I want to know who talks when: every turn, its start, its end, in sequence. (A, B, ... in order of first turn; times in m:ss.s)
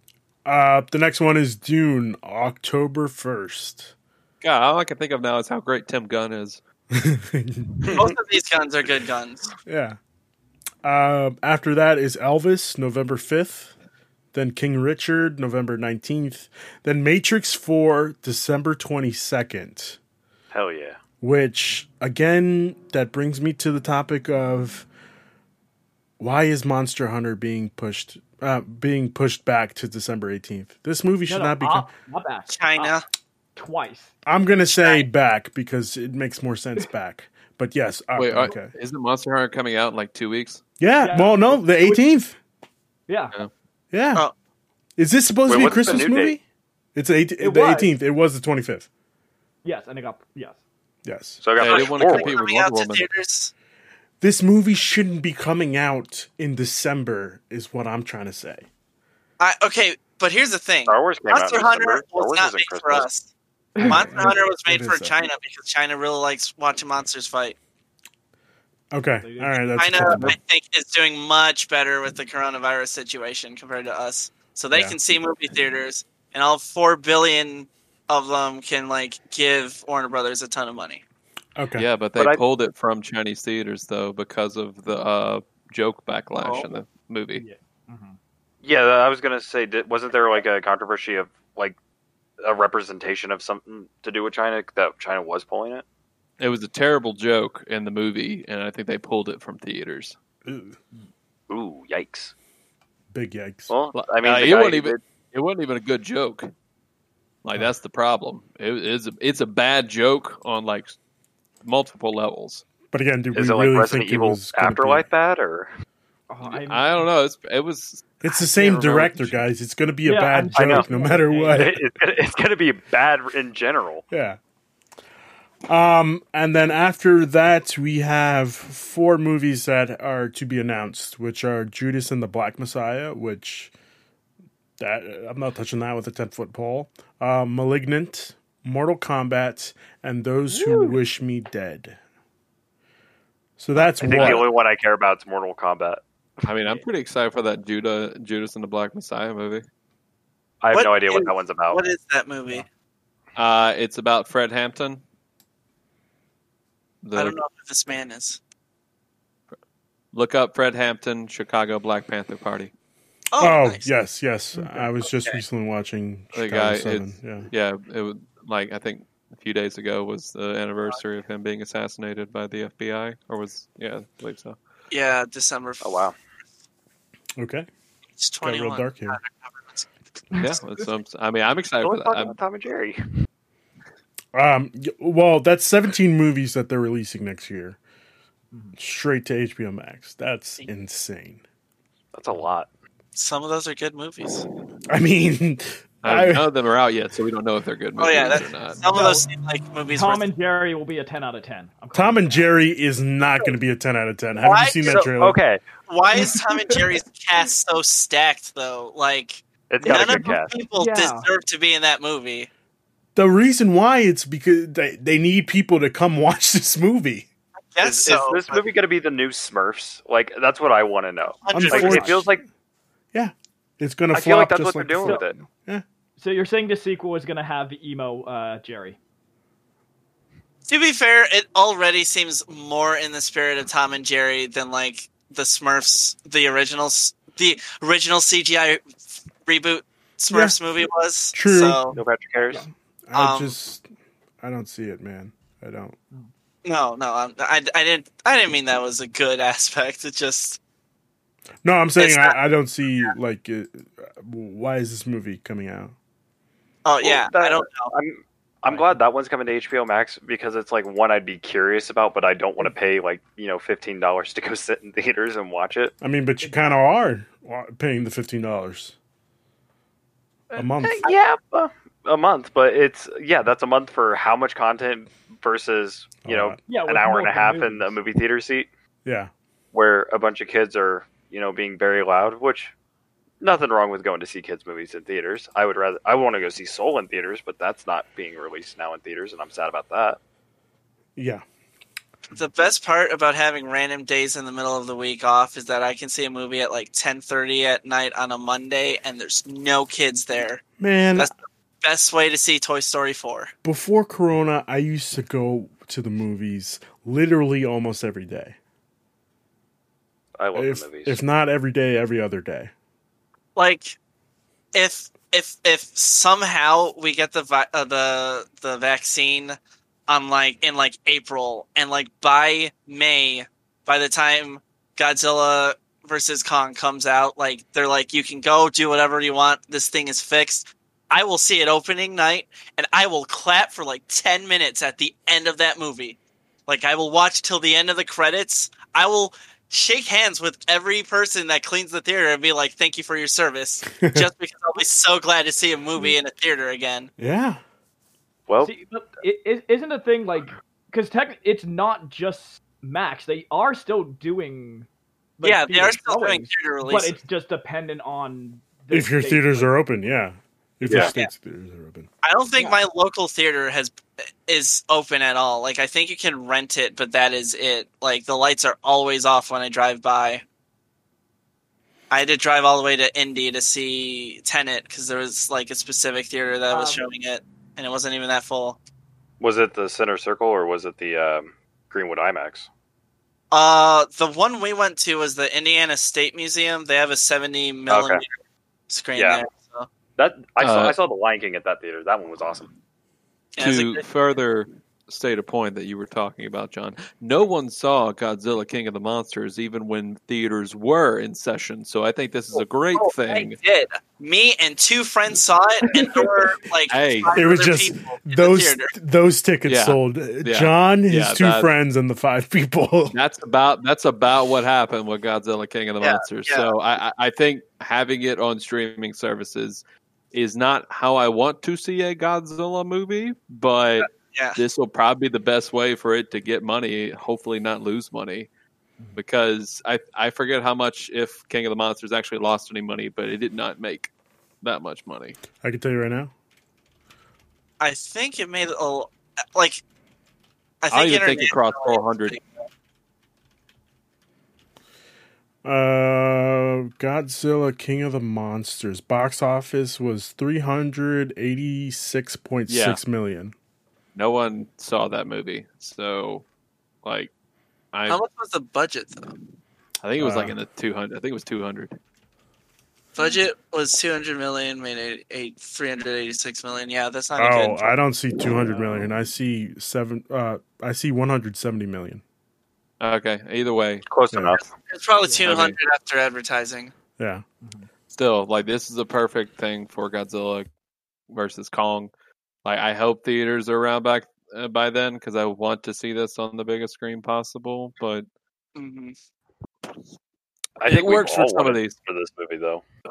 0:00.4-0:03.9 A
0:04.4-0:06.6 B
0:06.9-0:08.0 A
0:07.8-0:08.2 C
0:07.9-0:09.5 D
0:09.7-0:10.0 A
0:10.8-0:13.7 A
0:14.3-0:20.0 A
0:20.5-0:21.0 C
0:21.2-0:24.9 A
0:26.2-0:31.9 A
0:31.3-0:32.9 E
0:32.5-0:33.0 D
0:33.6-0:34.1 E
0:34.3-0:38.7 A
0:34.7-0:35.0 D
0:38.2-0:40.6 B
0:40.8-0:42.4 A
0:41.0-0:42.0 E
0:43.1-0:43.4 E
0:43.9-0:44.2 A
0:45.0-0:46.4 A
0:45.5-0:46.4 C
0:47.0-0:48.9 A
0:47.4-0:47.9 E
0:49.6-0:50.6 E
0:51.0-0:51.4 A
0:51.4-0:52.4 C
0:51.6-0:53.1 B
0:51.6-0:53.5 D
0:54.2-0:58.7 A
0:59.4-1:03.3 D
1:00.9-1:03.1 C
1:03.8-1:04.3 E
1:03.8-1:07.6 D
1:03.8-1:05.1 A
1:08.9-1:10.3 A
1:09.2-1:09.6 E
1:09.8-1:21.0 D
1:14.7-1:15.0 A
1:21.6-1:21.9 A
1:21.8-1:27.4 B
1:22.2-1:22.4 C
1:26.4-1:26.7 C
1:27.4-1:28.2 E
1:28.6-1:31.8 C
1:32.4-1:35.8 C
1:36.4-1:40.2 B
1:40.5-1:40.8 A
1:41.5-1:42.3 C
1:43.1-1:43.7 A
1:43.7-1:45.0 C
1:43.9-1:46.5 B
1:47.4-1:51.0 B
1:51.6-1:52.6 B
1:52.9-1:55.1 A
1:53.3-1:55.7 C
1:56.3-1:57.1 E
1:56.4-1:59.4 B
1:58.2-2:01.8 A
2:00.0-2:01.7 E
2:00.5-2:00.9 C
2:01.5-2:04.0 C
2:04.1-2:04.4 A
2:05.7-2:13.7 A
2:14.8-2:22.0 A
2:20.5-2:21.0 E
2:23.6-2:24.5 A
2:24.0-2:26.0 C
2:24.2-2:24.4 B
2:26.4-2:29.6 B
2:30.6-2:31.8 C
2:30.7-2:32.6 D
2:33.4-2:35.0 B
2:37.0-2:37.4 B
2:37.2-2:38.4 D
2:40.1-2:42.7 B
2:43.3-2:43.9 D
2:43.4-2:47.5 A
2:44.6-2:44.9 E
2:45.0-2:45.4 D
2:46.3-2:54.6 B
2:54.9-2:56.1 D
2:55.8-2:56.1 C
2:57.4-2:57.7 A
2:58.2-3:00.4 D
2:58.4-2:59.2 A
3:00.3-3:00.8 E
3:00.4-3:02.4 B
3:01.8-3:03.0 C
3:04.3-3:07.8 A
3:08.8-3:11.4 A
3:12.1-3:12.7 C
3:13.2-3:14.5 D
3:14.9-3:16.5 A
3:16.0-3:18.8 B
3:18.0-3:20.3 D
3:18.9-3:19.3 E
3:19.9-3:22.6 E
3:21.9-3:25.4 A
3:24.4-3:25.1 D
3:24.9-3:25.6 C
3:25.9-3:32.5 D
3:26.2-3:26.9 E
3:29.7-3:30.5 C
3:29.9-3:31.3 E
3:33.2-3:37.3 A
3:37.7-3:38.6 D
3:37.8-3:42.4 C
3:41.4-3:42.2 D
3:41.5-3:42.3 A
3:43.1-3:45.8 A
3:44.1-3:45.4 C
3:46.2-3:49.0 E
3:50.7-4:02.0 D
4:00.3-4:00.6 A
4:01.3-4:01.8 A
4:01.9-4:02.6 C
4:02.5-4:03.8 A
4:03.1-4:03.5 D
4:04.4-4:06.0 A
4:06.6-4:10.6 D
4:11.6-4:16.0 A
4:12.0-4:12.4 D
4:16.8-4:17.9 D
4:17.0-4:25.9 C
4:18.7-4:19.0 E
4:26.0-4:29.0 A
4:26.4-4:26.7 E
4:30.5-4:31.1 A
4:30.8-4:38.7 C
4:36.3-4:36.6 A
4:36.7-4:38.0 E
4:39.1-4:39.3 A
4:39.7-4:42.7 C
4:43.4-4:50.2 C
4:51.2-4:51.4 A
4:52.4-5:00.6 D
5:00.8-5:01.3 A
5:01.2-5:03.5 D
5:03.6-5:08.6 A
5:10.4-5:11.2 C
5:10.6-5:12.7 A
5:13.6-5:14.0 D
5:14.7-5:19.6 D
5:20.1-5:47.1 D
5:44.0-5:44.3 A
5:47.2-5:47.6 A
5:48.5-5:48.7 C
5:48.6-5:54.9 E
5:55.4-5:59.7 E
5:55.4-5:57.2 D
5:58.9-6:02.1 A
6:00.9-6:01.1 C
6:01.0-6:01.3 D
6:02.2-6:10.4 D
6:12.1-6:18.8 D
6:16.7-6:17.1 E
6:19.4-6:22.7 C
6:23.5-6:28.3 D
6:27.9-6:28.2 C
6:28.9-6:29.9 D
6:29.2-6:29.4 C
6:30.2-6:32.7 C
6:30.6-6:31.0 B
6:33.6-6:34.0 D
6:33.6-6:43.6 B
6:42.9-6:48.9 D
6:46.9-6:47.3 B
6:47.3-6:53.2 A
6:49.7-6:51.7 B
6:53.1-6:59.8 B
6:56.0-6:56.7 D
7:00.3-7:08.5 B
7:04.0-7:04.6 D
7:09.2-7:14.1 B
7:14.6-7:15.4 B
7:15.6-7:16.3 A
7:17.8-7:19.8 D
7:20.8-7:22.6 D
7:20.9-7:22.4 B
7:25.6-7:33.5 A
7:32.7-7:33.0 B
7:34.2-7:36.4 B
7:37.0-7:37.3 B
7:37.9-7:38.2 B
7:38.1-7:39.4 D
7:40.0-7:42.0 B
7:40.2-7:40.6 A
7:43.2-7:48.0 D
7:47.4-7:52.2 A
7:48.6-7:49.1 E
7:53.0-7:54.1 B
7:54.1-7:54.7 C
7:54.3-7:54.6 A
7:54.6-7:56.9 D
7:55.2-7:55.6 E
7:55.4-7:55.8 B
7:57.2-7:57.4 A
7:57.6-7:57.9 E
7:58.1-8:00.7 B
8:01.3-8:02.1 B
8:02.6-8:08.3 B
8:08.8-8:09.2 D
8:10.8-8:12.8 C
8:10.8-8:11.9 B